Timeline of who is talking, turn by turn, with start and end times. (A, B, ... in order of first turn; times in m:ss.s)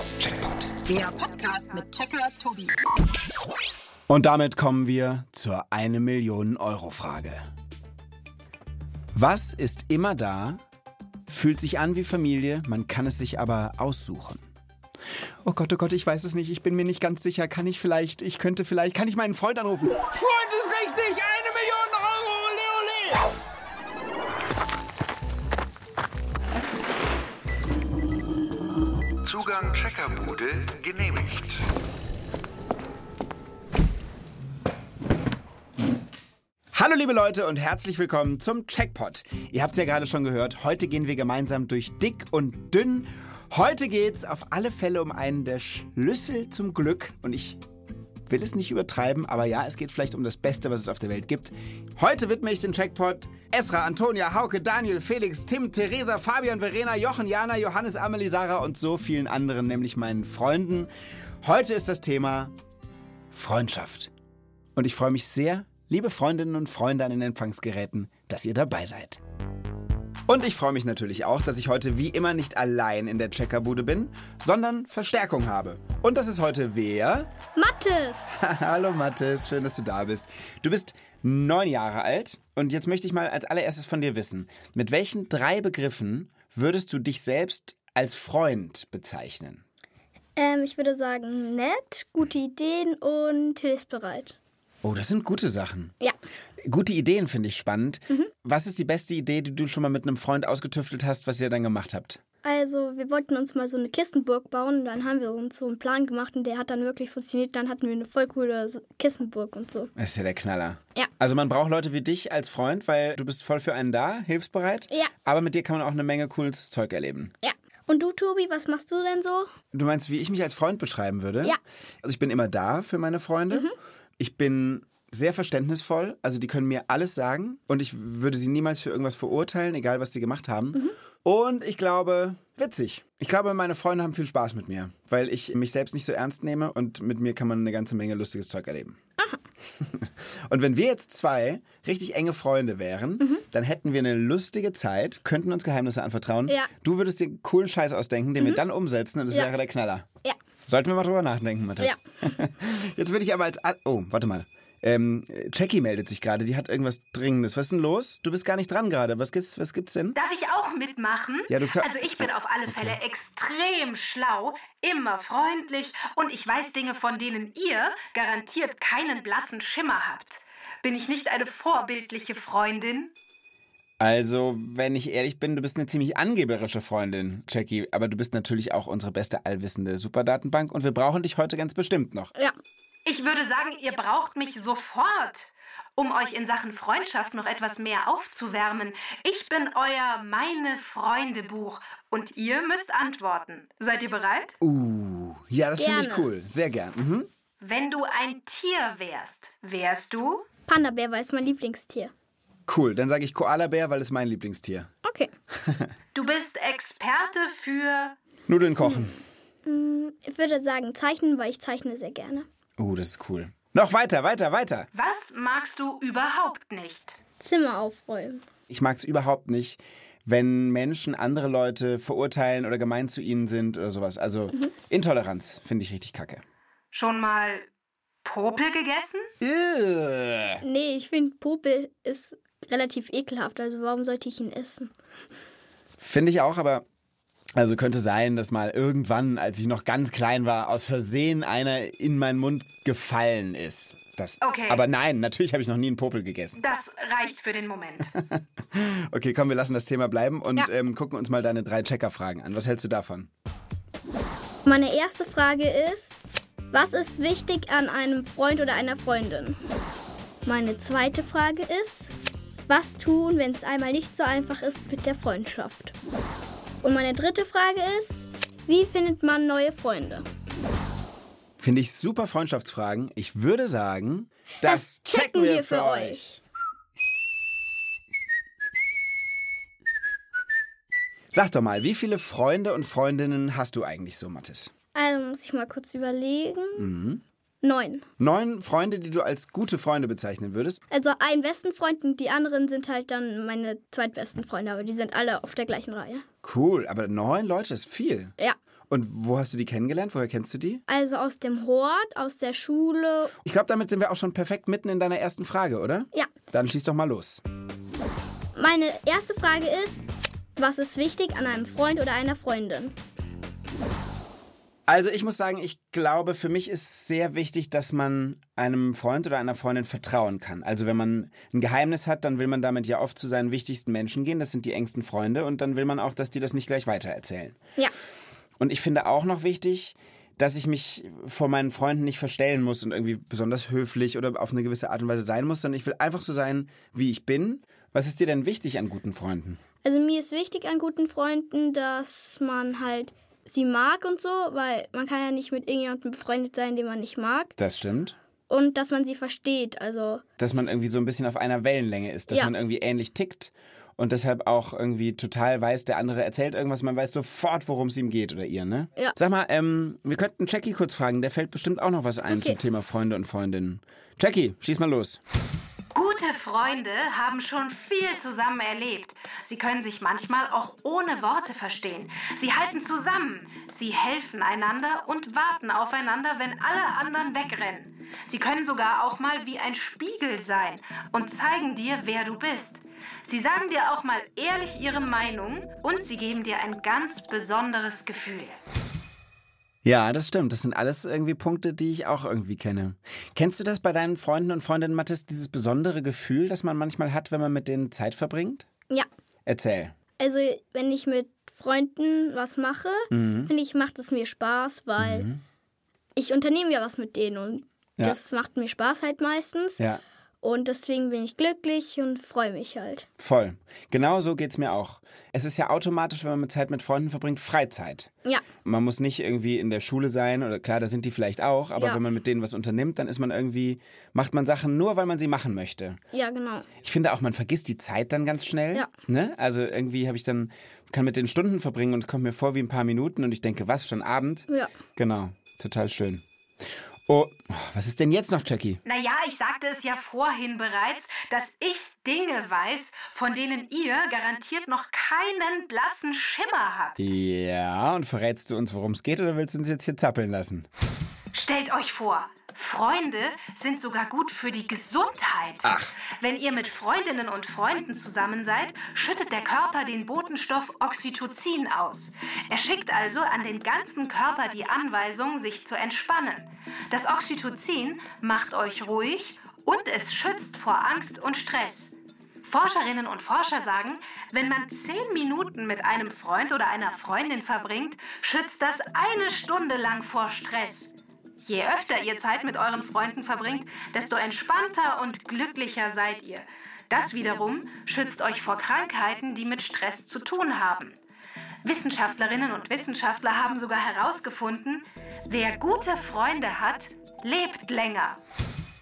0:00.2-0:00.7 A
0:00.8-0:02.8 B
0:04.1-0:07.5 A
0:09.1-0:10.6 A
0:11.3-0:14.4 A
0:15.4-0:23.2 A
0:29.2-0:31.6 C
0:36.7-0:47.6 A
0:48.3-1:00.9 A
1:01.4-1:02.5 A
1:03.3-1:04.1 A
1:04.7-1:09.2 A
1:10.3-1:17.3 A
1:17.6-1:18.3 D
1:18.3-1:29.6 A
1:30.4-1:34.4 D
1:34.8-1:35.9 A
1:36.6-1:42.2 A
1:42.4-1:49.9 D
1:50.0-1:57.3 A
1:57.4-1:59.5 D
1:59.7-2:19.0 A
2:19.8-2:30.1 A
2:30.7-2:40.2 A
2:40.1-2:53.1 E
2:41.5-2:43.0 A
2:54.0-3:02.3 A
3:03.0-3:14.6 E
3:14.6-3:17.3 A
3:15.8-3:16.3 D
3:17.6-3:20.4 E
3:20.7-3:22.1 D
3:22.7-3:24.9 A
3:25.0-3:25.3 D
3:25.6-3:25.9 A
3:26.1-3:28.2 E
3:28.5-3:29.2 A
3:28.8-3:29.1 D
3:29.6-3:32.4 D
3:32.8-3:34.9 A
3:34.9-3:37.2 E
3:37.4-3:38.4 D
3:38.7-3:46.4 A
3:46.9-3:47.7 E
3:48.2-3:49.3 E
3:49.4-3:50.6 A
3:50.6-3:54.9 D
3:56.0-3:56.8 A
3:57.6-4:06.6 A
4:04.4-4:04.8 E
4:06.6-4:08.1 E
4:08.1-4:13.3 A
4:14.6-4:16.1 D
4:16.7-4:19.6 D
4:20.4-4:22.1 D
4:22.7-4:25.9 D
4:26.8-4:30.2 D
4:31.6-4:36.2 A
4:34.6-4:36.4 D
4:41.3-4:44.7 A
4:44.9-4:46.9 D
4:46.8-4:47.2 A
4:47.6-4:48.0 D
4:48.2-4:50.8 A
4:50.9-4:56.2 D
4:56.4-4:58.3 A
4:58.9-5:00.8 A
5:00.9-5:03.3 D
5:03.4-5:07.4 A
5:08.6-5:10.0 D
5:10.6-5:12.9 D
5:14.9-5:27.6 A
5:28.6-5:39.6 A
5:39.8-5:47.5 D
5:47.6-5:48.2 A
5:48.5-5:50.2 D
5:50.4-6:05.2 A
6:02.3-6:02.6 D
6:05.9-6:28.6 E
6:29.8-6:38.7 A
6:39.4-6:39.9 A
6:40.2-6:45.3 D
6:43.1-6:43.5 A
6:45.0-6:45.4 A
6:46.2-6:49.8 D
6:50.4-6:53.1 D
6:53.2-6:58.1 A
6:58.6-7:06.0 A
7:06.1-7:06.7 D
7:06.8-7:16.2 A
7:17.1-7:18.8 A
7:18.8-7:27.1 E
7:27.0-7:30.7 A
7:31.3-7:51.9 E
7:35.6-7:35.9 A
7:52.4-8:00.9 E
8:01.4-8:11.0 E
8:11.6-8:18.2 E